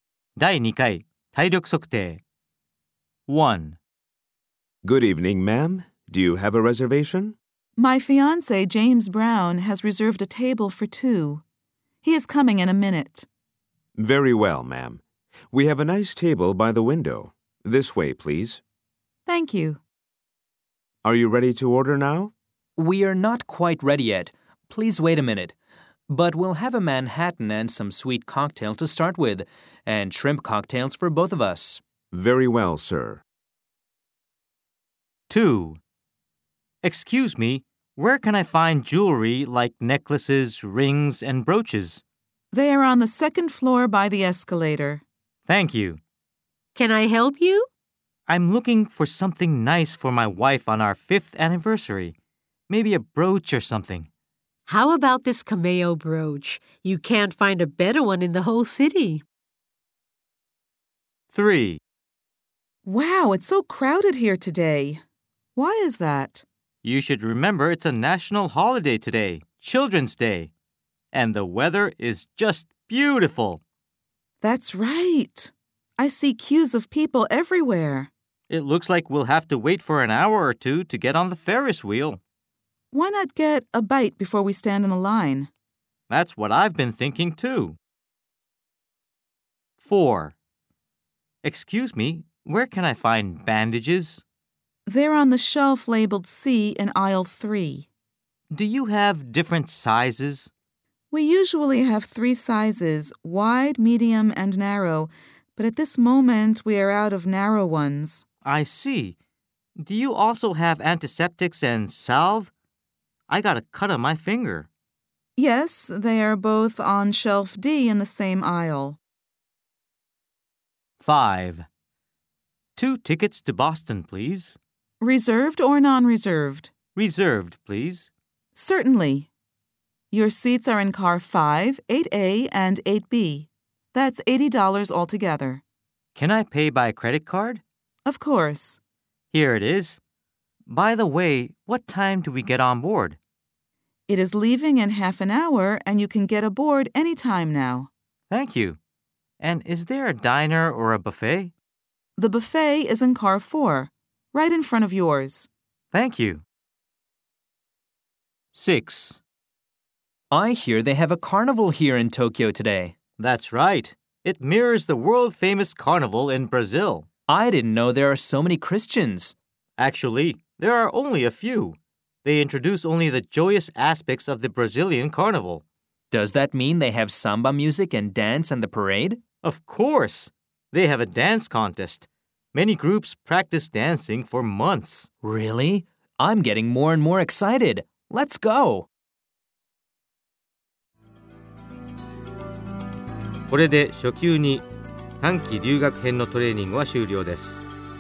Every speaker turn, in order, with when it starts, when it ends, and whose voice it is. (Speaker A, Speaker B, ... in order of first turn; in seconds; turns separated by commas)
Speaker A: 0.4-2.2, Speaker A: 3.3-3.8, Speaker B: 4.8-7.4, Speaker C: 7.8-11.4, Speaker C: 12.0-13.3, Speaker B: 14.0-18.6, Speaker C: 19.3-19.8, Speaker B: 21.0-22.3, Speaker D: 22.8-25.6, Speaker D: 26.1-31.8, Speaker B: 32.1-33.2, Speaker A: 35.3-35.8, Speaker A: 36.8-42.0, Speaker C: 42.5-45.0, Speaker A: 45.5-46.0, Speaker E: 46.8-47.7, Speaker A: 48.3-52.1, Speaker A: 52.7-54.1, Speaker E: 54.7-59.2, Speaker A: 61.3-61.8, Speaker C: 62.9-65.0, Speaker C: 65.6-66.5, Speaker A: 66.8-70.5, Speaker A: 71.1-73.6, Speaker C: 74.4-78.1, Speaker A: 78.5-82.2, Speaker C: 82.9-85.5, Speaker A: 86.1-87.8, Speaker A: 89.8-90.3, Speaker A: 91.4-94.2, Speaker C: 94.9-97.9, Speaker A: 98.5-100.5, Speaker C: 101.1-108.2, Speaker A: 108.5-109.2, Speaker A: 109.8-112.5, Speaker A: 113.3-114.7, Speaker C: 115.4-119.0, Speaker A: 121.0-121.7, Speaker A: 122.8-124.6, Speaker C: 125.0-126.7, Speaker A: 127.0-128.1, Speaker C: 128.5-129.3, Speaker C: 130.1-135.6, Speaker A: 136.1-137.6, Speaker C: 138.1-138.8, Speaker A: 139.3-140.0, Speaker A: 140.7-143.2, Speaker C: 144.1-147.9, Speaker A: 148.3-148.8, Speaker A: 149.4-151.5, Speaker C: 152.2-155.5, Speaker A: 155.9-156.4, Speaker A: 158.5-159.2, Speaker D: 160.3-162.9, Speaker A: 163.2-167.1, Speaker D: 167.3-169.3, Speaker A: 169.8-175.6, Speaker D: 176.1-179.2, Speaker A: 179.4-185.1, Speaker D: 185.2-188.9, Speaker A: 193.5-194.7, Speaker A: 195.2-197.7